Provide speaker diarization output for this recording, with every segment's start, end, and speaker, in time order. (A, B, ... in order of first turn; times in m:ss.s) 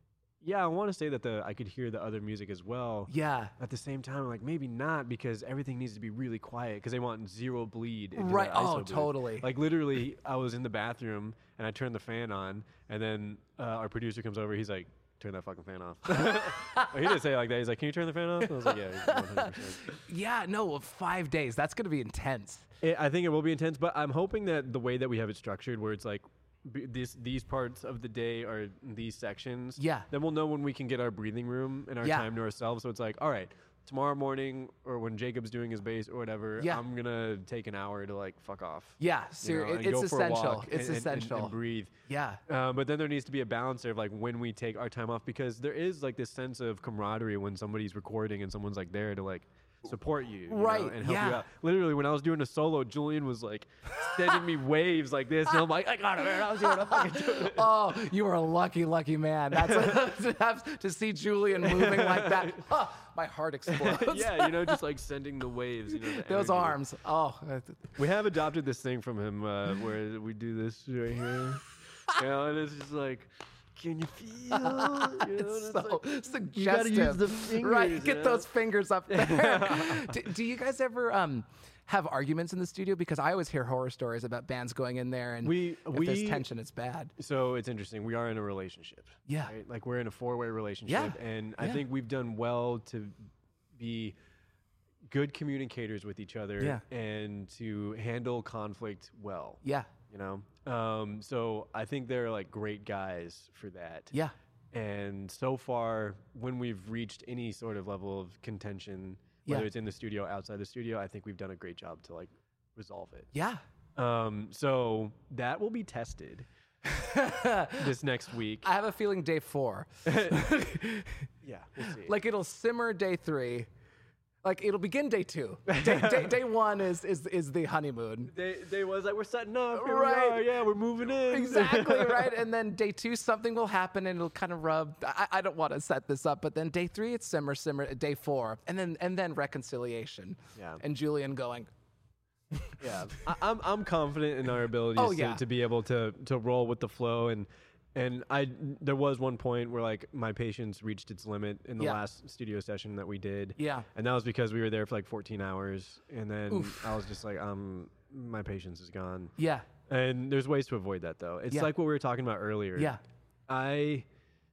0:00.4-0:19.9 A
0:03.1-0:03.6 B
0:08.2-0:09.5 B
0:16.1-0:17.0 B
0:18.4-0:22.7 B
0:22.8-0:41.9 A
0:29.8-0:30.1 B
0:32.0-0:32.3 B
0:39.0-0:41.6 B
0:42.1-0:42.4 B
0:42.5-0:57.7 A
0:50.5-0:51.4 B
0:54.0-0:54.4 B
0:56.3-1:04.8 B
0:59.5-1:00.0 A
1:01.6-1:02.7 A
1:03.7-1:06.8 A
1:05.9-1:08.0 B
1:08.0-1:18.5 A
1:14.5-1:27.1 B
1:19.1-1:20.2 A
1:25.4-1:26.5 A
1:27.2-1:34.2 A
1:29.3-1:29.5 B
1:30.9-1:31.8 B
1:35.1-1:44.1 A
1:39.6-1:39.9 B
1:44.7-1:53.3 A
1:53.3-1:53.6 B
1:54.0-1:56.5 A
1:56.8-1:57.9 B
1:57.7-1:58.7 A
1:58.6-2:01.3 B
2:00.1-2:00.5 A
2:01.4-2:02.1 A
2:01.8-2:03.7 B
2:04.4-2:08.3 B
2:05.7-2:06.4 A
2:08.3-2:12.4 A
2:09.7-2:10.6 B
2:11.2-2:21.7 B
2:20.6-2:20.8 A
2:22.5-2:22.8 B
2:22.8-2:39.3 A
2:25.0-2:25.4 B
2:33.6-2:33.9 B
2:36.5-2:37.0 B
2:39.4-2:39.7 B
2:39.9-2:44.1 A